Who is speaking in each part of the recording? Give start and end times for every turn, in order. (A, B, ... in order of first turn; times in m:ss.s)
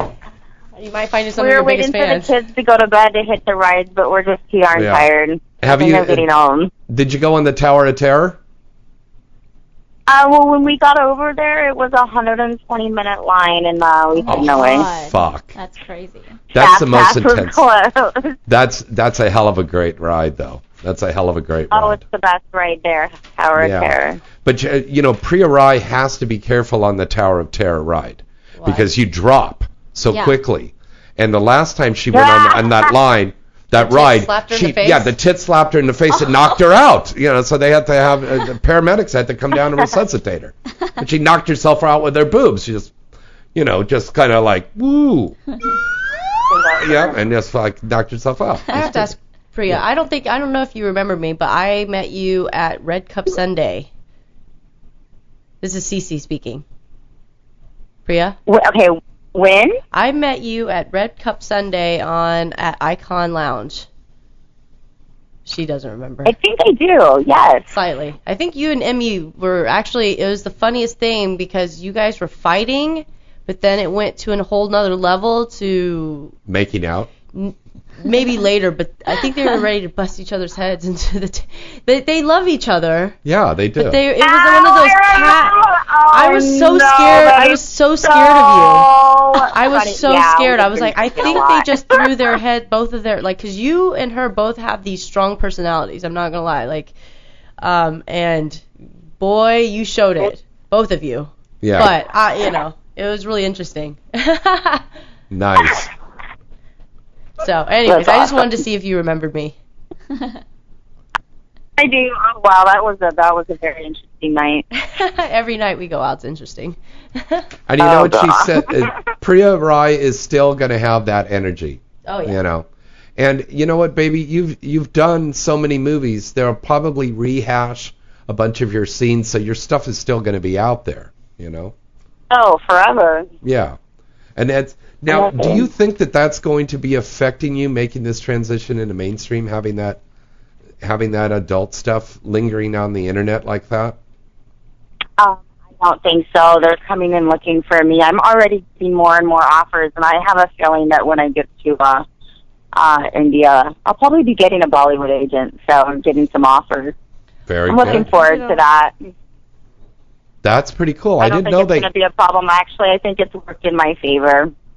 0:00.8-0:02.3 A
0:01.4-0:06.7 B
0:04.7-0:05.1 C
0:05.6-0:06.3 C
0:06.9-0:08.4 C
0:10.1-0:14.9 B
0:14.1-0:16.4 D
0:14.3-0:15.6 C
0:16.5-0:17.6 C
0:16.5-0:18.4 B
0:18.5-0:22.0 C
0:21.7-0:24.2 B
0:23.6-0:42.9 C
0:28.6-0:28.9 A
0:30.1-0:30.4 D
0:32.1-0:32.9 B
0:33.8-0:35.1 A
0:43.6-0:45.4 C
0:46.5-0:47.2 B
0:46.8-0:49.1 C
0:48.7-0:53.9 A
0:55.6-0:56.6 A
0:58.1-0:58.4 A
0:58.5-0:59.8 B
0:59.9-1:03.9 A
1:05.5-1:06.4 A
1:06.2-1:07.8 B
1:07.7-1:16.3 A
1:16.5-1:17.1 C
1:17.3-1:23.2 A
1:23.2-1:24.0 C
1:23.8-1:36.9 A
1:24.2-1:32.3 B
1:37.6-1:38.7 A
1:39.2-1:44.8 A
1:41.6-1:41.9 C
1:45.3-1:45.9 C
1:47.4-1:49.5 A
1:47.9-1:48.5 B
1:51.8-1:54.6 B
1:54.8-1:57.5 A
1:57.7-2:11.7 C
1:57.8-1:58.7 B
2:02.1-2:02.4 A
2:12.3-2:13.3 B
2:13.4-2:13.8 C
2:14.4-2:20.0 C
2:15.1-2:15.7 B
2:20.8-2:24.0 C
2:25.2-2:32.0 B
2:32.7-2:37.0 B
2:37.5-2:38.1 C
2:37.7-2:38.9 B
2:37.7-2:38.6 A
2:40.4-2:41.9 C
2:41.2-2:44.5 B